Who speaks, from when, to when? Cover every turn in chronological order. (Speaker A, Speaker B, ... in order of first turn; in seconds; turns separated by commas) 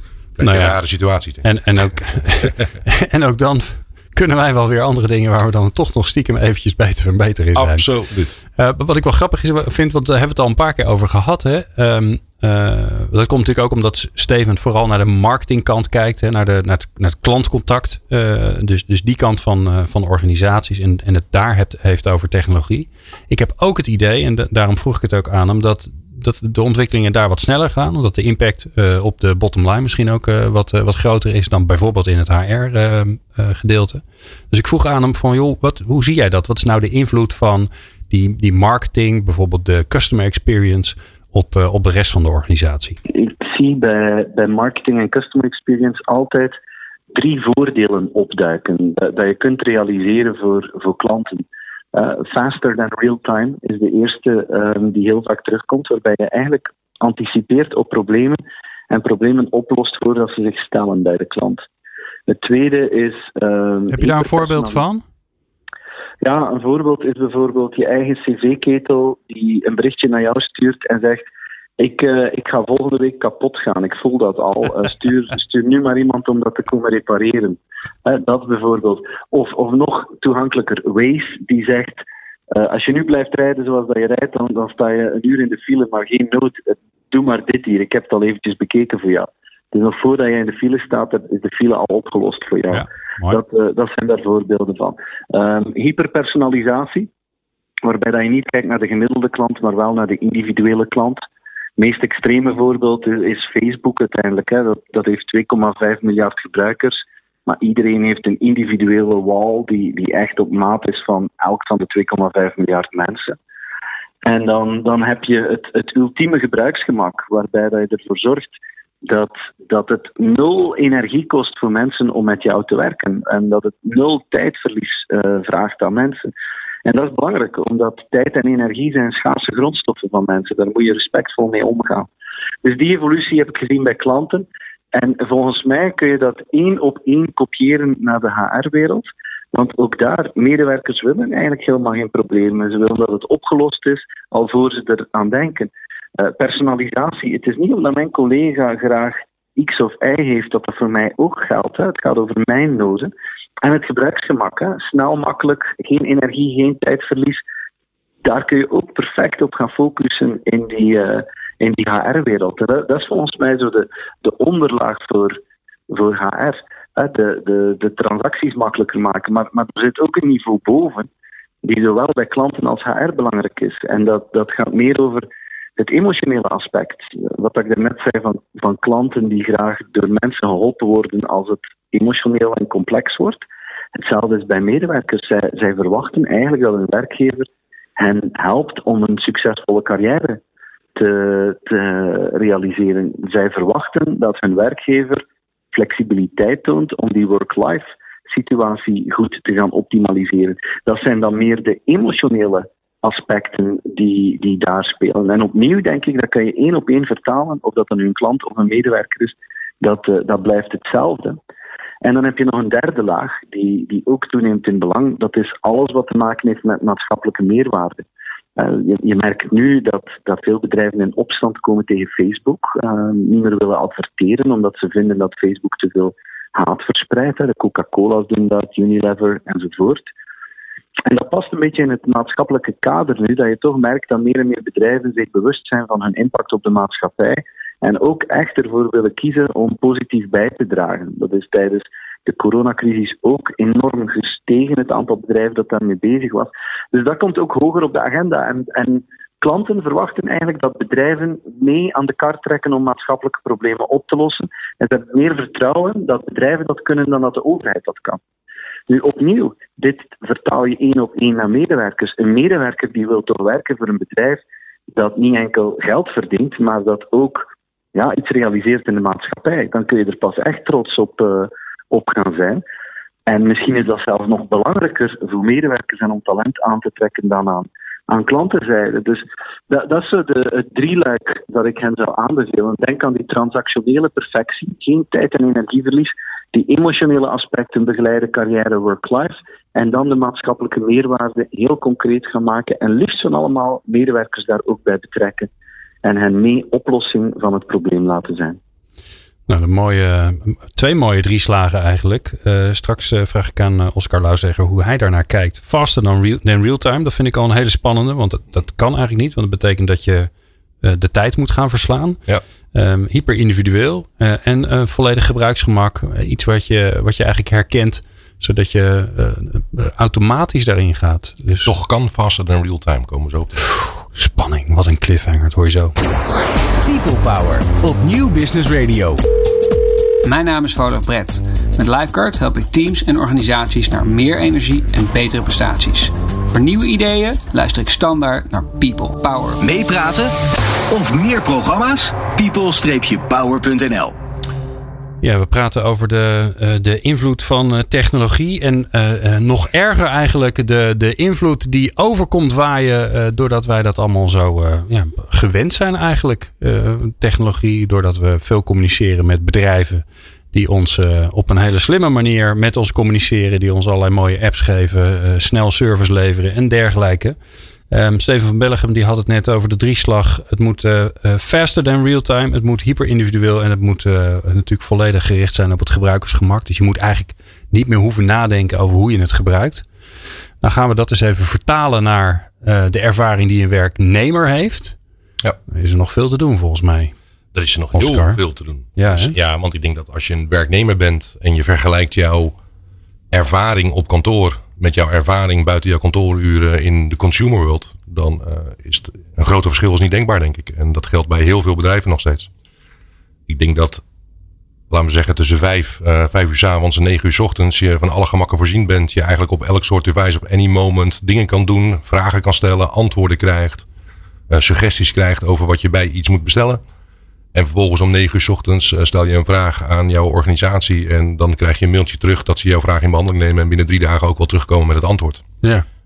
Speaker A: 0.4-2.5, Speaker B: 0.4-0.8, Speaker B: 1.4-7.9, Speaker A: 7.5-8.3, Speaker B: 8.6-43.0, Speaker C: 43.1-46.6, Speaker C: 47.1-61.6, Speaker C: 62.3-64.8, Speaker B: 63.9-65.0, Speaker C: 66.2-71.3, Speaker C: 71.8-97.1, Speaker B: 92.7-93.4, Speaker C: 97.8-101.2, Speaker C: 101.8-113.4, Speaker C: 114.2-126.3, Speaker C: 126.8-132.1, Speaker C: 132.6-157.4, Speaker C: 158.2-165.4, Speaker C: 165.9-171.1, Speaker C: 171.6-175.3, Speaker C: 175.8-183.4, Speaker C: 183.9-190.4, Speaker C: 191.0-211.4, Speaker C: 212.0-218.1, Speaker C: 218.6-230.1, Speaker C: 231.1-258.2, Speaker C: 258.9-264.4, Speaker C: 264.9-272.6, Speaker C: 273.3-295.5, Speaker C: 296.0-298.6, Speaker B: 299.5-310.3, Speaker B: 310.8-312.2, Speaker B: 312.7-321.7, Speaker A: 321.6-323.5, Speaker B: 324.1-325.9, Speaker D: 326.9-329.2, Speaker E: 330.2-339.6, Speaker D: 339.6-340.3, Speaker D: 340.9-344.2, Speaker B: 345.2-367.4, Speaker B: 367.9-379.9, Speaker B: 380.6-385.0, Speaker B: 385.7-387.1, Speaker A: 387.5-392.6, Speaker B: 387.9-388.4, Speaker B: 389.0-389.3, Speaker A: 393.3-402.5, Speaker A: 403.5-404.0, Speaker A: 404.9-413.9, Speaker A: 414.5-416.8, Speaker A: 417.5-425.4